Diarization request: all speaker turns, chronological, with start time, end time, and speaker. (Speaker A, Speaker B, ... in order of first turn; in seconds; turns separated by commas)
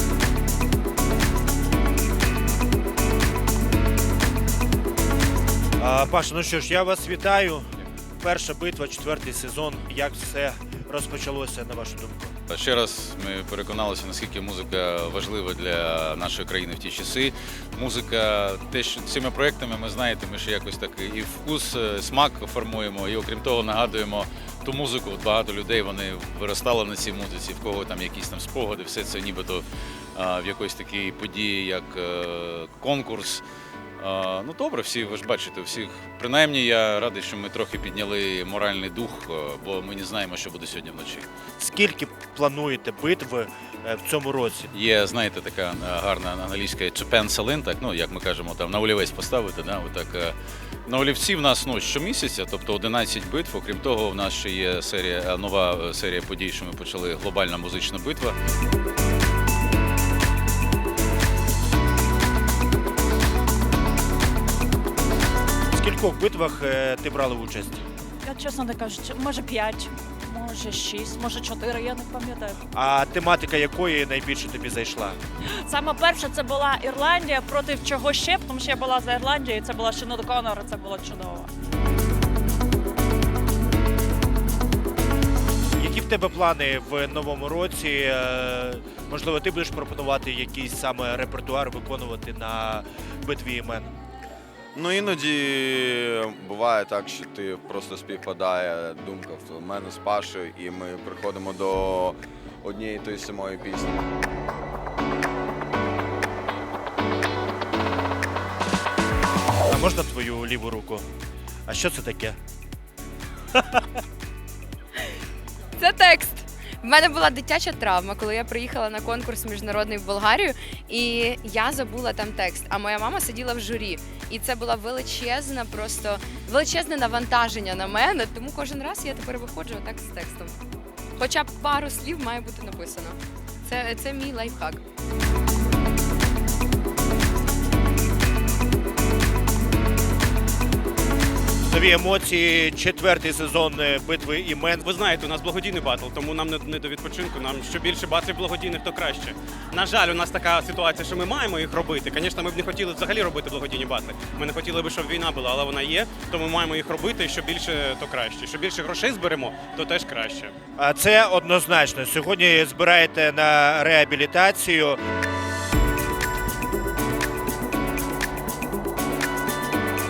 Speaker A: 5.8-12.3, Speaker B: 12.5-33.4, Speaker B: 34.0-41.2, Speaker A: 41.6-44.7, Speaker B: 44.7-50.3, Speaker B: 50.9-58.4, Speaker A: 65.7-67.8, Speaker C: 68.2-72.5, Speaker A: 72.7-75.2, Speaker C: 75.6-81.5, Speaker A: 85.7-93.9, Speaker D: 94.7-104.0, Speaker A: 109.7-111.0, Speaker A: 111.7-112.4, Speaker E: 115.8-130.5, Speaker E: 131.2-134.8, Speaker A: 141.7-144.8, Speaker F: 144.8-160.5, Speaker A: 160.8-165.0